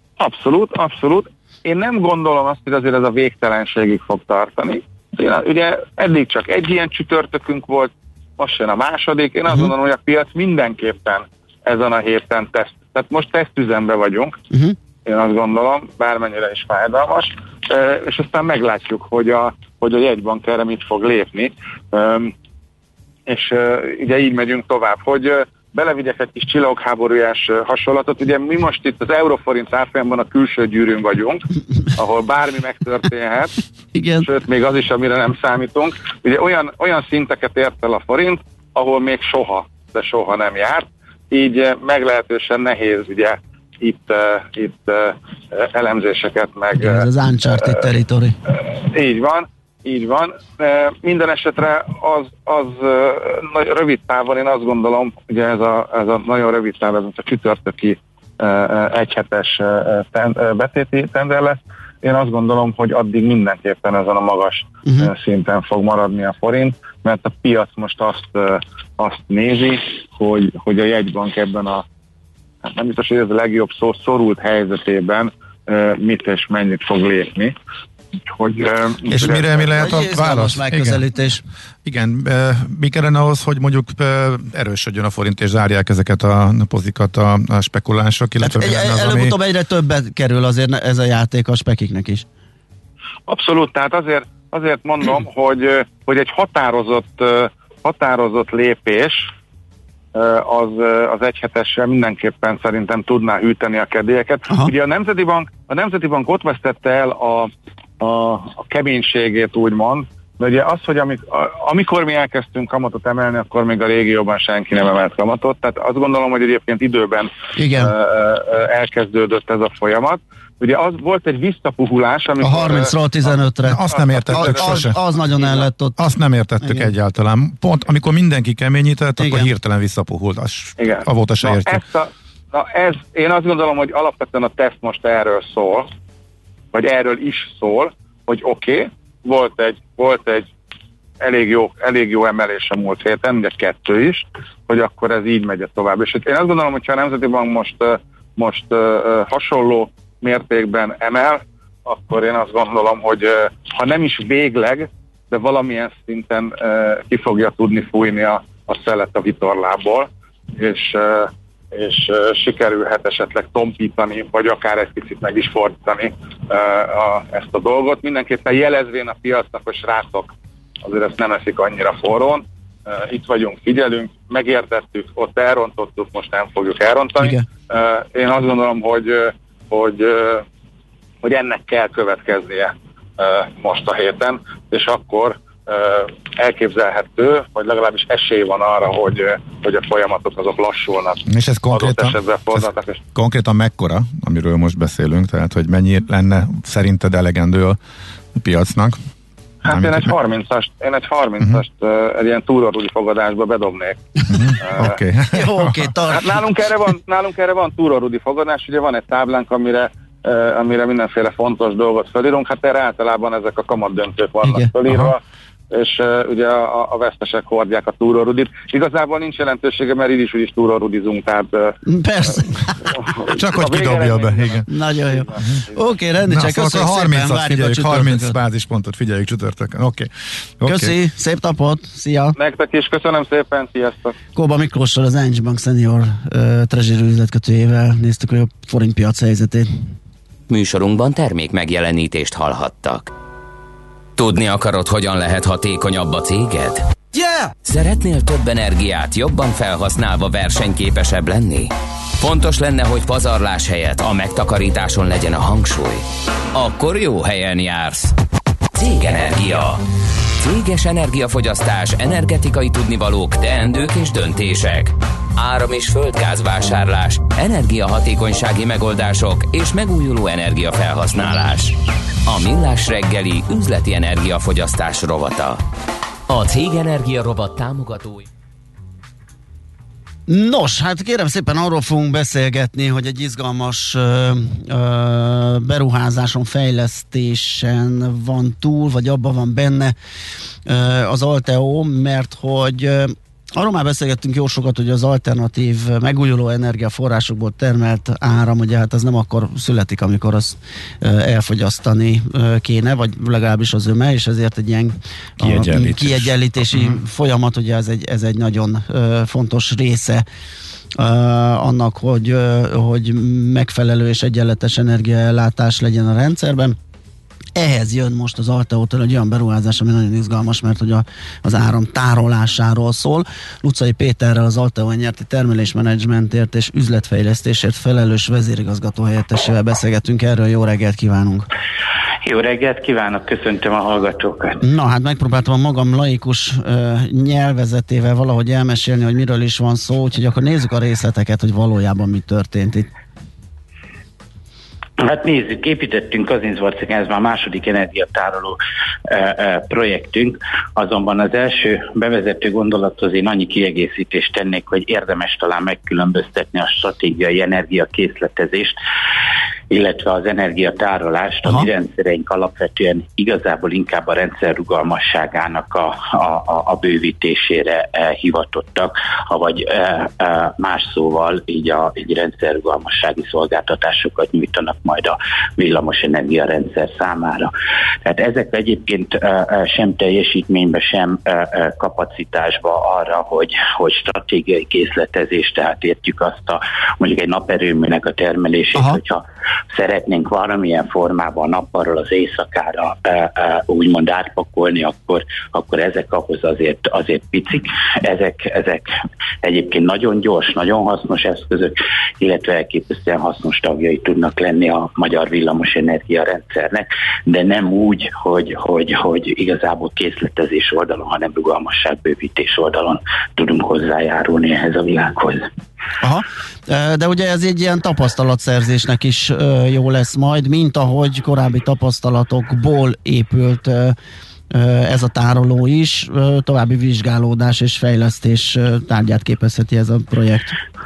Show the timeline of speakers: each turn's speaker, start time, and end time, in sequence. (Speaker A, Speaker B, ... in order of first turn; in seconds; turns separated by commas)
Speaker A: 0.2-14.4, Speaker B: 14.5-14.8, Speaker A: 15.1-22.3, Speaker A: 23.3-33.5, Speaker B: 33.9-34.3, Speaker A: 34.2-47.1, Speaker B: 46.8-48.4, Speaker A: 48.5-71.8, Speaker B: 64.9-65.1, Speaker A: 72.6-77.5, Speaker A: 78.3-79.8, Speaker C: 79.1-81.0, Speaker B: 79.7-81.4, Speaker C: 81.8-89.3, Speaker B: 88.4-92.3, Speaker A: 93.3-99.3, Speaker A: 100.1-122.9, Speaker B: 117.5-117.9, Speaker B: 122.4-126.0, Speaker C: 123.7-125.0, Speaker A: 123.9-125.6, Speaker C: 126.0-131.8, Speaker B: 126.6-126.9, Speaker B: 129.2-129.5, Speaker A: 130.8-135.9, Speaker A: 136.7-140.5, Speaker A: 141.2-170.3, Speaker A: 170.8-180.4, Speaker A: 181.2-193.0, Speaker C: 191.3-197.8, Speaker C: 198.3-199.0, Speaker C: 199.6-200.1, Speaker A: 199.7-204.0, Speaker C: 204.3-205.9, Speaker A: 204.6-205.0, Speaker B: 205.3-206.4, Speaker A: 206.1-215.2, Speaker B: 214.4-214.7, Speaker A: 215.7-221.8, Speaker B: 221.9-222.9, Speaker A: 222.4-225.7, Speaker C: 223.3-224.7, Speaker B: 224.7-228.4, Speaker C: 226.3-230.9, Speaker B: 230.7-232.4, Speaker A: 232.4-234.2, Speaker B: 234.4-239.8, Speaker D: 240.5-243.1, Speaker D: 244.2-246.9, Speaker D: 247.6-258.1, Speaker D: 258.7-259.8, Speaker D: 260.4-275.6, Speaker D: 276.3-278.3, Speaker B: 280.3-289.9, Speaker B: 290.7-310.2, Speaker C: 305.4-307.0, Speaker B: 311.0-316.8, Speaker B: 317.6-331.5, Speaker E: 332.2-334.6, Speaker B: 334.6-342.9, Speaker E: 345.0-358.8, Speaker E: 359.7-377.5, Speaker E: 378.1-398.9, Speaker E: 399.4-415.5, Speaker B: 416.0-424.0, Speaker B: 424.5-430.6